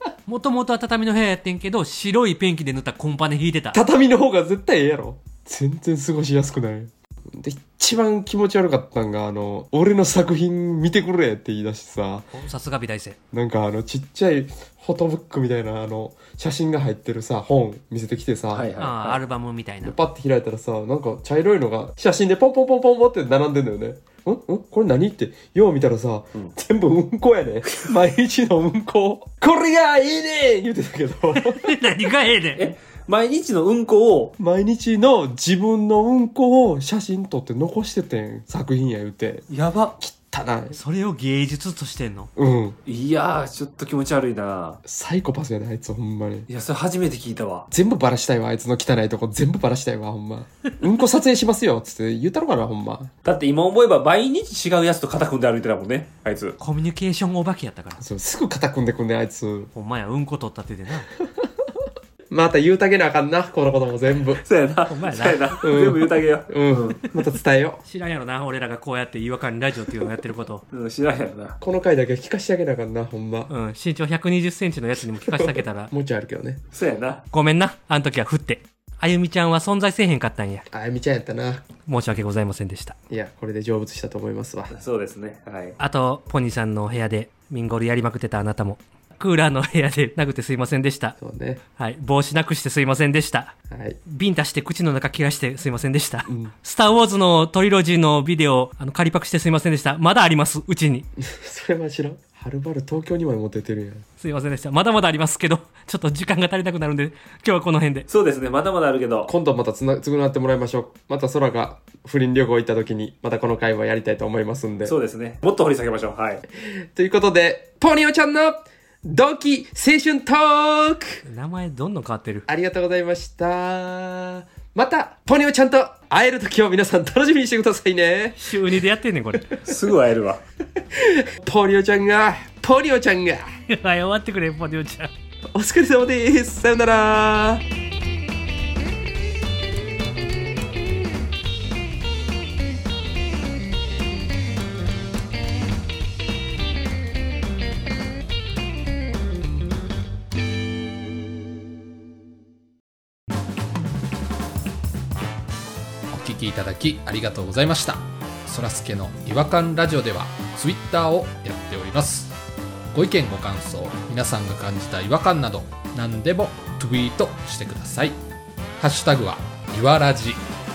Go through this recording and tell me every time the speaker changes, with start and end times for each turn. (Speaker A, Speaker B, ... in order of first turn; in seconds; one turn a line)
Speaker A: 0.2-3.8
Speaker B: 3.7-12.3
Speaker A: 12.3-13.2
Speaker B: 13.3-18.7
Speaker C: 18.5-19.2
Speaker A: 18.8-19.9
Speaker B: 19.8-31.6
Speaker A: 31.4-32.7
Speaker C: 32.6-34.3
Speaker B: 34.4-39.5
Speaker C: 39.5-39.9
Speaker B: 40.0-40.8
Speaker A: 40.7-42.3
Speaker B: 42.4-42.8
Speaker C: 42.9-44.8
Speaker B: 44.8-46.5
Speaker C: 46.5-47.7
Speaker B: 47.7-53.1
Speaker C: 53.2-56.6
Speaker A: 56.6-58.0
Speaker B: 58.0-59.7
Speaker A: 59.7-61.1
Speaker B: 62.3-64.4
Speaker C: 64.4-67.0
Speaker A: 64.9-65.5
Speaker B: 65.6-67.8
Speaker A: 67.8-70.6
Speaker C: 70.7-71.6
Speaker B: 71.6-73.5
Speaker A: 73.5-75.9
Speaker B: 75.2-76.6
Speaker C: 76.7-77.2
Speaker A: 77.3-80.7
Speaker B: 80.7-81.7
Speaker A: 81.8-83.0
Speaker B: 83.1-84.7
Speaker C: 84.7-85.8
Speaker A: 85.8-91.2
Speaker B: 91.2-91.6
Speaker A: 91.8-93.5
Speaker B: 93.7-94.0
Speaker A: 94.0-101.1
Speaker B: 96.2-96.5
Speaker B: 101.2-104.0
Speaker A: 104.2-108.1
Speaker C: 108.1-109.3
Speaker B: 109.2-114.9
Speaker C: 114.8-116.4
Speaker B: 116.9-121.2
Speaker A: 121.2-122.5
Speaker B: 122.5-128.8
Speaker A: 128.4-129.6
Speaker C: 129.7-130.4
Speaker B: 130.9-133.5
Speaker A: 133.7-135.1
Speaker B: 135.5-137.6
Speaker D: 156.1-162.3
Speaker D: 162.9-168.2
Speaker D: 168.8-170.4